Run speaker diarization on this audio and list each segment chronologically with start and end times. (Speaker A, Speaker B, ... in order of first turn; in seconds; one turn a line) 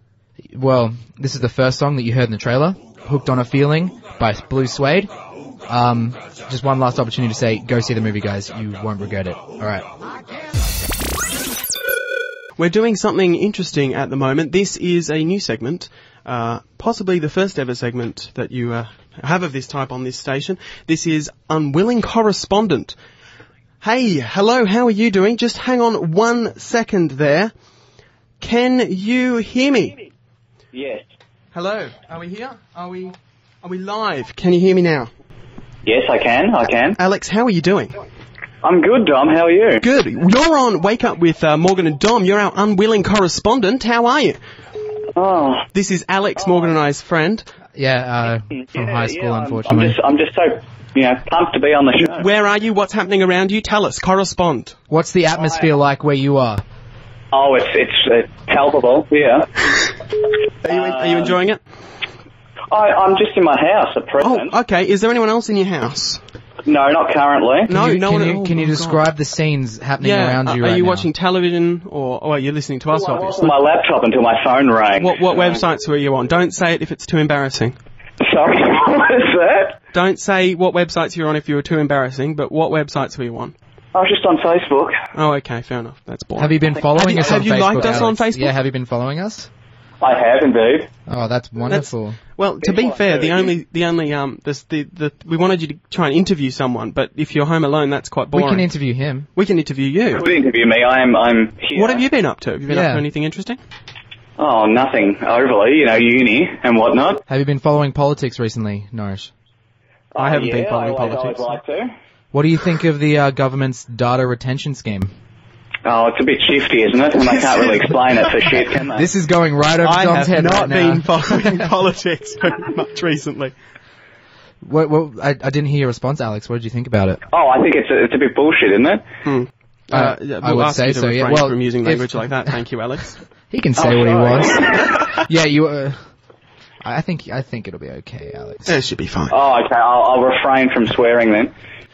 Speaker A: 0.5-5.1
Speaker A: 5.7-9.8
Speaker B: 12.6-22.9
Speaker B: 23.8-27.5
Speaker B: 28.4-30.1
Speaker C: 30.7-31.0
Speaker B: 31.5-35.1
Speaker C: 35.8-37.0
Speaker B: 37.0-38.0
Speaker C: 38.6-39.8
Speaker B: 39.8-44.4
Speaker C: 45.1-45.6
Speaker B: 45.7-47.5
Speaker A: 47.8-50.0
Speaker C: 48.6-52.3
Speaker B: 52.0-54.8
Speaker A: 54.9-56.6
Speaker C: 57.3-59.6
Speaker B: 60.6-61.6
Speaker C: 60.7-61.4
Speaker C: 62.7-64.5
Speaker B: 64.2-66.2
Speaker C: 66.6-67.7
Speaker B: 67.7-69.1
Speaker A: 67.7-71.1
Speaker B: 70.0-73.6
Speaker C: 72.9-75.6
Speaker B: 75.0-77.8
Speaker C: 78.2-79.8
Speaker B: 79.9-83.5
Speaker C: 83.9-84.9
Speaker B: 85.1-88.5
Speaker A: 86.3-89.5
Speaker C: 87.0-88.1
Speaker C: 90.0-90.9
Speaker A: 91.1-92.2
Speaker B: 91.6-98.7
Speaker C: 92.6-93.5
Speaker A: 98.3-99.3
Speaker B: 99.3-100.2
Speaker C: 100.1-102.0
Speaker B: 101.7-103.6
Speaker A: 102.7-103.0
Speaker C: 104.4-107.2
Speaker A: 107.3-109.3
Speaker C: 110.1-111.9
Speaker B: 110.2-111.6
Speaker A: 112.3-115.1
Speaker C: 115.8-119.0
Speaker B: 117.2-118.3
Speaker A: 118.9-121.7
Speaker B: 119.8-123.5
Speaker A: 124.6-127.2
Speaker C: 127.3-129.0
Speaker B: 129.2-133.2
Speaker A: 129.9-132.5
Speaker A: 133.5-136.0
Speaker C: 133.8-135.1
Speaker A: 136.8-138.8
Speaker B: 138.7-139.4
Speaker C: 139.3-141.5